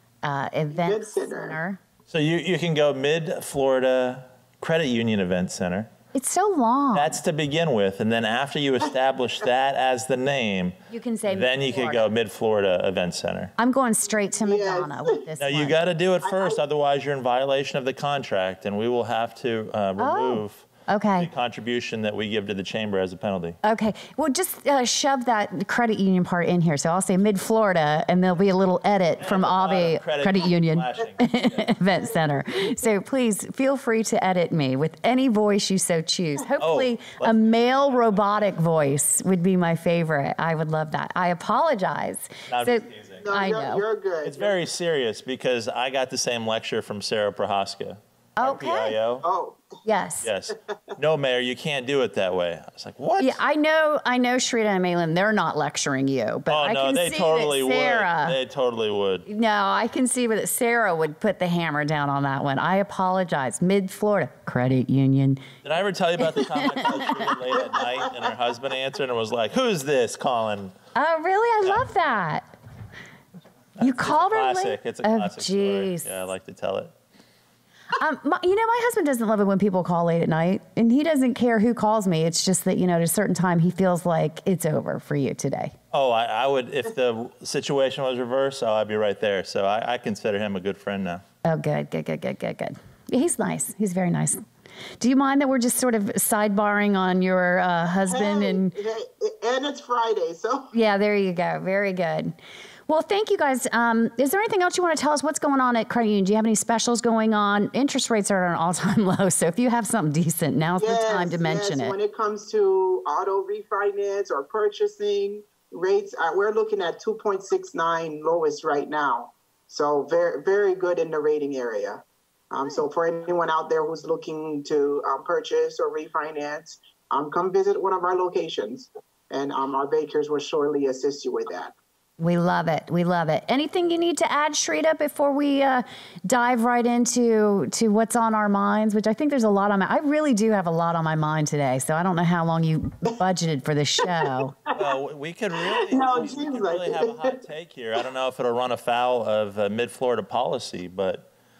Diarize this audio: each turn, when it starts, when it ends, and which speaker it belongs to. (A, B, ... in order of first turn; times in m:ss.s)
0:00.2-0:01.8 A
0:00.7-0:01.6 B
0:02.1-0:05.9 C
0:06.1-0:07.2 A
0:06.9-0:13.5 C
0:10.9-0:12.1 A
0:13.6-0:15.8 A
0:14.4-0:15.2 B
0:15.4-0:23.6 C
0:16.2-0:16.6 B
0:20.0-0:21.3 A
0:23.6-0:43.8 A
0:29.2-0:31.8 C
0:36.6-0:38.6 C
0:42.5-0:43.3 C
0:43.2-0:44.5 B
0:44.2-0:49.2 C
0:48.4-0:49.0 A
0:49.2-0:49.8 B
0:49.8-0:50.3 A
0:50.2-0:53.4 C
0:53.2-0:58.4 A
0:56.5-0:59.2 C
0:59.2-1:05.4 A
1:05.6-1:10.8 C
1:06.2-1:07.1 A
1:10.9-1:12.5 A
1:13.8-1:16.9 C
1:13.8-1:16.1 A
1:18.0-1:25.7 A
1:25.9-1:31.2 C
1:31.4-1:34.4 A
1:35.0-1:38.7 A
1:38.0-1:40.7 B
1:40.7-1:42.4 A
1:42.9-1:51.9 A
1:50.8-2:11.7 B
2:12.2-2:24.5 A
2:24.7-2:31.3 C
2:25.7-2:27.4 B